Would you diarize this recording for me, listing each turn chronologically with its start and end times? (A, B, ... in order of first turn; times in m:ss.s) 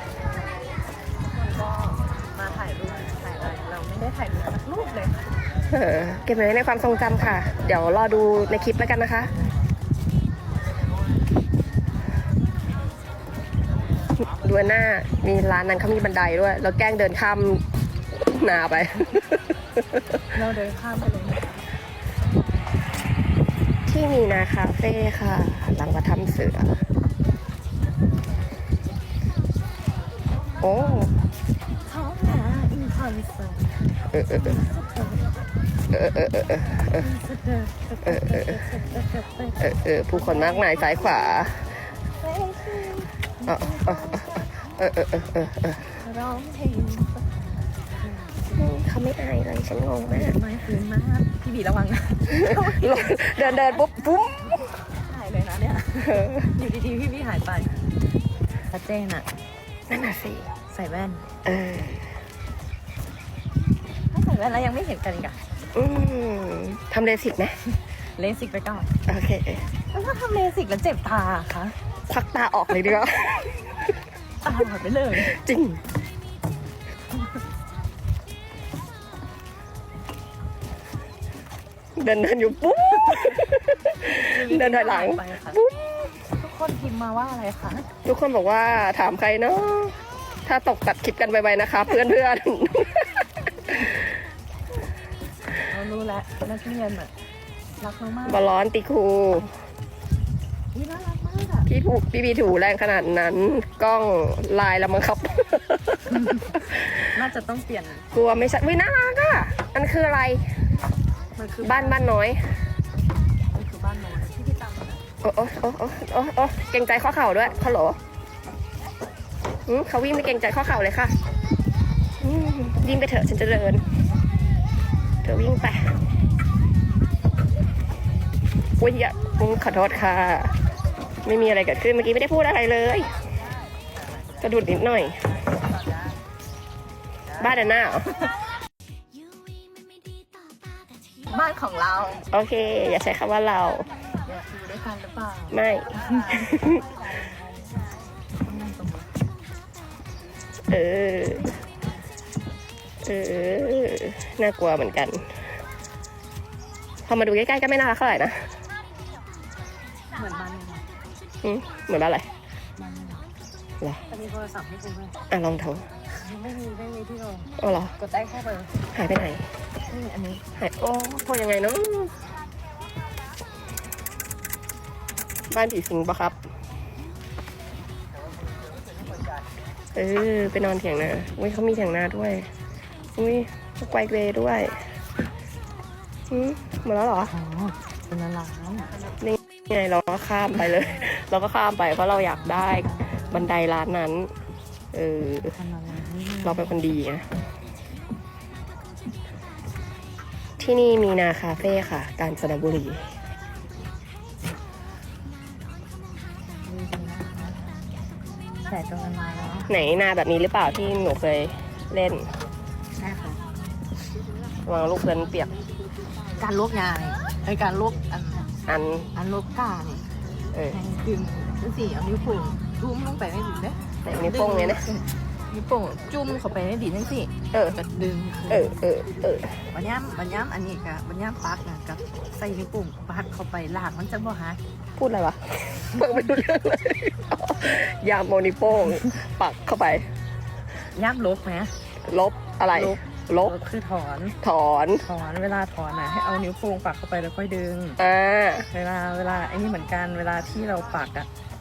0:01.4-0:05.2 A
0:05.7-0:09.3 B
0:14.2-0:17.6 B
0:18.3-0:20.2 B
0:20.3-0:21.6 A
0:23.9-0:26.8 B
0:30.6-0:31.2 B
0:31.8-0:33.8 A
0:34.1-0:34.6 B
0:34.4-0:35.2 A
0:35.9-0:37.1 B
0:36.8-0:39.6 A
0:38.0-0:38.6 B
0:39.6-0:41.7 B
0:40.1-0:40.8 A
0:42.2-0:44.4 A
0:43.5-0:44.2 B
0:44.8-0:45.9 B
0:46.0-0:47.2 A
0:48.0-0:48.4 A
0:48.6-0:50.4 B
0:50.1-0:53.8 A
0:52.3-0:54.7 B
0:54.8-0:57.7 A
0:56.0-0:56.5 B
0:58.7-0:59.2 A
0:59.9-1:00.5 B
1:00.7-1:01.3 A
1:01.4-1:02.2 B
1:04.1-1:05.4 A
1:05.7-1:07.6 B
1:08.2-1:08.9 A
1:09.1-1:09.6 B
1:09.9-1:11.7 A
1:12.1-1:13.8 B
1:14.4-1:15.3 A
1:15.2-1:15.8 B
1:22.0-1:26.1 B
1:24.0-1:25.6 A
1:26.4-1:27.9 A
1:28.0-1:33.9 B
1:35.7-1:37.1 A
1:37.8-1:38.5 A
1:38.2-1:39.5 B
1:40.7-1:41.7 A
1:41.7-1:47.1 B
1:46.2-1:46.5 A
1:47.1-1:48.0 A
1:48.1-1:50.4 B
1:51.4-1:52.0 A
1:51.6-1:52.4 B
1:53.5-1:55.0 A
1:55.2-1:58.0 B
1:59.6-2:01.1 B
2:02.2-2:03.8 B
2:05.2-2:05.9 B
2:08.8-2:10.5 B
2:11.2-2:13.1 B
2:14.4-2:15.2 B
2:17.4-2:18.1 B
2:21.3-2:22.2 A
2:22.3-2:23.9 B
2:24.2-2:25.6 A
2:25.5-2:26.9 B
2:28.4-2:29.1 A
2:30.7-2:31.5 B
2:33.0-2:35.2 B
2:37.1-2:38.5 B
2:40.1-2:40.9 A
2:41.4-2:42.3 B
2:42.8-2:43.3 A
2:44.1-2:45.2 A
2:45.3-2:45.9 B
2:46.1-2:48.7 A
2:47.6-2:47.9 B
2:48.9-2:49.4 B
2:49.9-2:50.4 A
2:50.6-2:52.1 B
2:55.5-2:56.4 B
2:59.9-3:02.5 B
3:03.2-3:04.8 B
3:06.3-3:07.3 B
3:07.3-3:08.9 A
3:09.2-3:14.3 B
3:12.4-3:13.3 A
3:14.9-3:15.5 B
3:15.4-3:16.7 A
3:16.4-3:17.3 B
3:20.6-3:23.1 B
3:26.6-3:27.6 A
3:28.6-3:29.7 A
3:29.7-3:32.3 B
3:33.0-3:33.4 A
3:34.6-3:35.5 B
3:36.4-3:38.5 A
3:38.7-3:39.1 B
3:39.1-3:40.0 A
3:40.5-3:40.8 B
3:40.7-3:48.7 A
3:44.0-3:44.8 B
3:47.5-3:47.8 B
3:48.5-3:49.6 B
3:49.7-3:54.6 A
3:55.0-4:00.0 B
4:00.9-4:01.7 A
4:02.0-4:03.5 B
4:02.7-4:04.4 A
4:04.4-4:05.0 B
4:05.0-4:08.0 A
4:08.0-4:08.7 B
4:08.7-4:11.3 A